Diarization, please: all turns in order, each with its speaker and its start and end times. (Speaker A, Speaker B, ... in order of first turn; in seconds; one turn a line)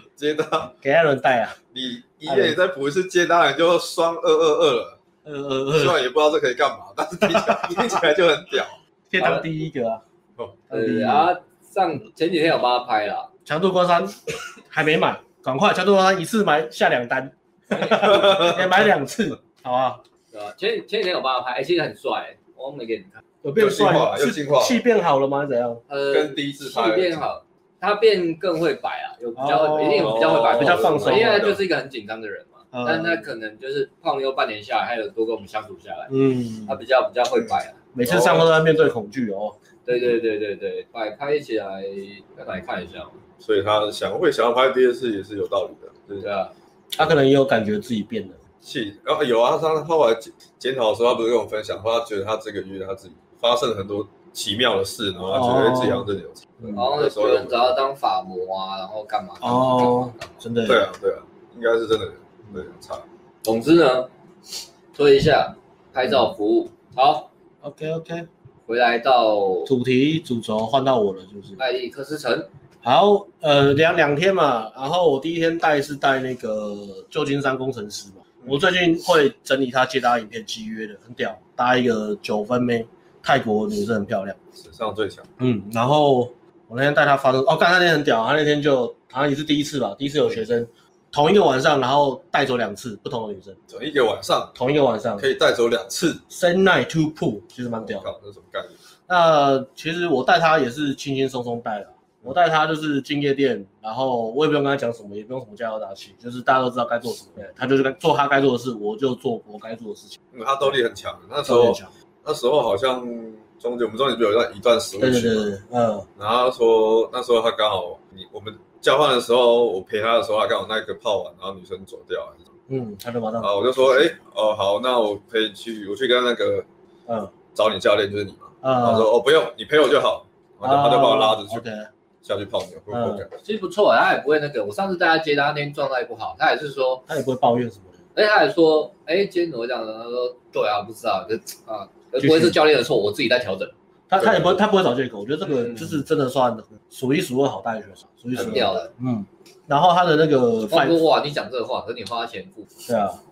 Speaker A: 0.2-0.7
Speaker B: 0.8-1.6
Speaker A: 1.7-5.0
Speaker B: 2.2-2.6
Speaker B: 5.2-6.0
Speaker A: 5.7-8.8
Speaker B: 7.3-8.0
Speaker B: 9.1-10.0
Speaker C: 9.2-9.4
Speaker B: 10.7-11.3
Speaker C: 10.7-13.3
Speaker B: 13.4-14.2
Speaker B: 14.7-20.0
Speaker C: 17.7-18.5
Speaker A: 18.0-18.7
Speaker C: 20.3-23.2
Speaker B: 23.4-25.8
Speaker A: 23.5-24.8
Speaker C: 25.9-37.8
Speaker A: 26.1-27.2
Speaker B: 29.4-31.6
Speaker A: 29.9-31.6
Speaker B: 32.7-33.3
Speaker B: 36.1-36.8
Speaker B: 37.9-39.5
Speaker A: 38.0-38.5
Speaker C: 39.9-43.2
Speaker A: 43.4-46.3
Speaker C: 46.2-46.5
Speaker B: 46.9-48.4
Speaker A: 48.6-57.7
Speaker B: 55.3-56.1
Speaker C: 56.7-60.3
Speaker B: 59.4-60.9
Speaker A: 60.6-63.0
Speaker C: 63.4-64.1
Speaker C: 64.9-67.3
Speaker B: 67.6-68.3
Speaker C: 68.7-69.7
Speaker B: 69.7-71.6
Speaker C: 71.6-72.5
Speaker B: 72.8-84.4
Speaker A: 84.5-85.3
Speaker B: 85.4-93.6
Speaker A: 93.7-94.6
Speaker B: 94.5-95.3
Speaker A: 95.2-96.2
Speaker B: 96.3-98.1
Speaker A: 97.8-98.8
Speaker B: 99.1-110.8
Speaker A: 110.3-115.5
Speaker B: 111.5-111.9
Speaker B: 115.0-116.1
Speaker A: 116.2-122.4
Speaker B: 122.7-124.1
Speaker A: 123.4-126.7
Speaker B: 127.1-127.3
Speaker A: 127.5-131.6
Speaker B: 128.6-129.1
Speaker B: 130.6-131.9
Speaker A: 132.2-133.3
Speaker B: 132.9-133.2
Speaker C: 133.4-137.0
Speaker B: 137.1-137.9
Speaker C: 138.1-143.7
Speaker B: 142.2-142.6
Speaker B: 144.1-151.0
Speaker A: 144.2-144.5
Speaker C: 145.5-145.9
Speaker C: 148.3-148.9
Speaker C: 150.6-152.7
Speaker B: 152.8-153.2